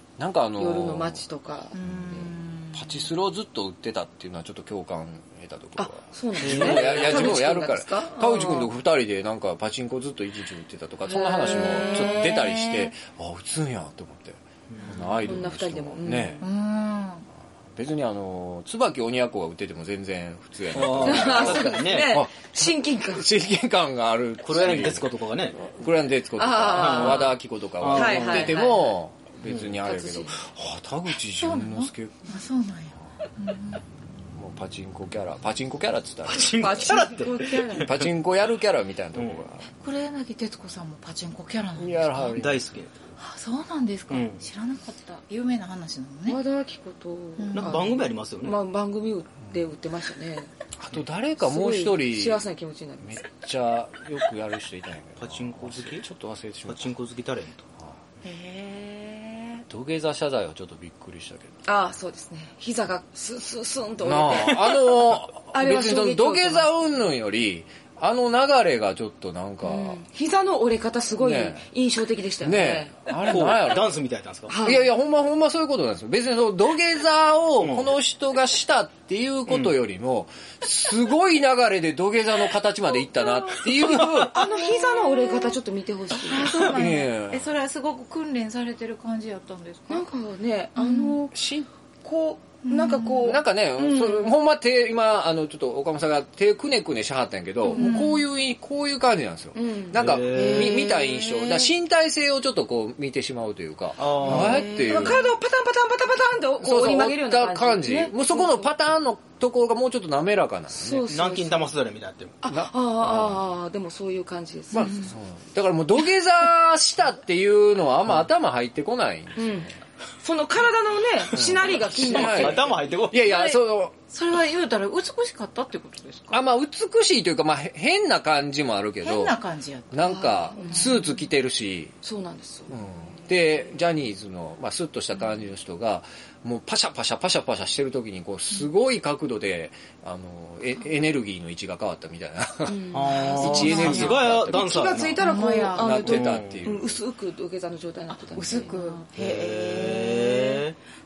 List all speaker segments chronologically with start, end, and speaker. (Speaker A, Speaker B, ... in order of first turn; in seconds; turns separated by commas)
Speaker A: 0.2-1.2, Speaker B: 0.6-1.8, Speaker C: 1.7-3.1, Speaker A: 1.8-16.4, Speaker B: 5.8-8.7, Speaker D: 6.4-7.3, Speaker B: 11.1-12.4, Speaker C: 11.4-12.9, Speaker D: 14.7-15.1, Speaker B: 15.2-16.4, Speaker C: 16.4-17.3, Speaker A: 17.7-32.4, Speaker D: 20.7-22.1, Speaker B: 21.0-23.2, Speaker D: 24.4-25.6, Speaker B: 26.4-27.3, Speaker D: 26.7-28.6, Speaker B: 27.9-28.9, Speaker D: 29.4-29.8, Speaker B: 29.8-30.4, Speaker C: 31.3-33.8, Speaker A: 34.3-37.1, Speaker D: 36.3-38.1, Speaker B: 36.6-37.9, Speaker A: 37.7-39.7, Speaker D: 39.1-39.4, Speaker C: 39.8-42.5, Speaker A: 41.8-42.6, Speaker D: 42.4-43.0, Speaker C: 43.2-46.4, Speaker D: 44.1-44.4, Speaker B: 46.2-50.5, Speaker C: 47.4-48.0, Speaker D: 47.5-48.6, Speaker A: 50.8-52.4, Speaker B: 51.4-53.2, Speaker A: 53.0-56.9, Speaker D: 55.2-56.0, Speaker D: 56.7-57.6, Speaker C: 58.2-59.4, Speaker A: 59.7-61.6, Speaker B: 61.6-64.8, Speaker A: 64.0-70.0, Speaker D: 64.5-64.9, Speaker B: 65.5-66.7, Speaker B: 69.6-73.1, Speaker A: 71.2-71.7, Speaker A: 72.4-74.0, Speaker D: 73.2-74.5, Speaker B: 74.5-74.9, Speaker A: 74.6-84.5, Speaker D: 77.6-77.9, Speaker D: 79.5-79.7, Speaker B: 83.4-86.7, Speaker C: 86.1-90.1, Speaker A: 86.5-87.5, Speaker B: 89.9-91.3, Speaker C: 90.8-91.2, Speaker A: 91.3-91.7, Speaker B: 92.0-94.3, Speaker C: 92.6-93.3, Speaker A: 93.2-105.2, Speaker B: 97.7-98.0, Speaker C: 97.7-98.2, Speaker B: 99.5-100.0, Speaker D: 99.9-100.9, Speaker C: 100.3-101.7, Speaker D: 104.0-104.7, Speaker C: 104.2-105.2, Speaker B: 104.8-108.7, Speaker A: 106.6-111.0, Speaker B: 110.7-111.6, Speaker D: 111.1-112.4, Speaker B: 112.4-115.1, Speaker A: 112.5-113.4, Speaker A: 114.7-119.7, Speaker B: 119.3-122.7, Speaker A: 121.3-123.9, Speaker D: 121.8-123.4, Speaker B: 123.2-123.6, Speaker C: 124.1-126.4, Speaker A: 126.3-129.4, Speaker C: 129.0-131.1, Speaker A: 129.9-132.0, Speaker B: 130.0-131.1, Speaker B: 132.0-132.8, Speaker A: 132.7-145.0, Speaker B: 142.7-144.0, Speaker D: 142.9-145.2, Speaker C: 143.2-144.2, Speaker B: 144.5-149.0, Speaker C: 145.2-146.1, Speaker A: 145.7-147.0, Speaker D: 146.1-146.6, Speaker C: 148.1-150.7, Speaker A: 148.4-148.6, Speaker D: 149.1-150.8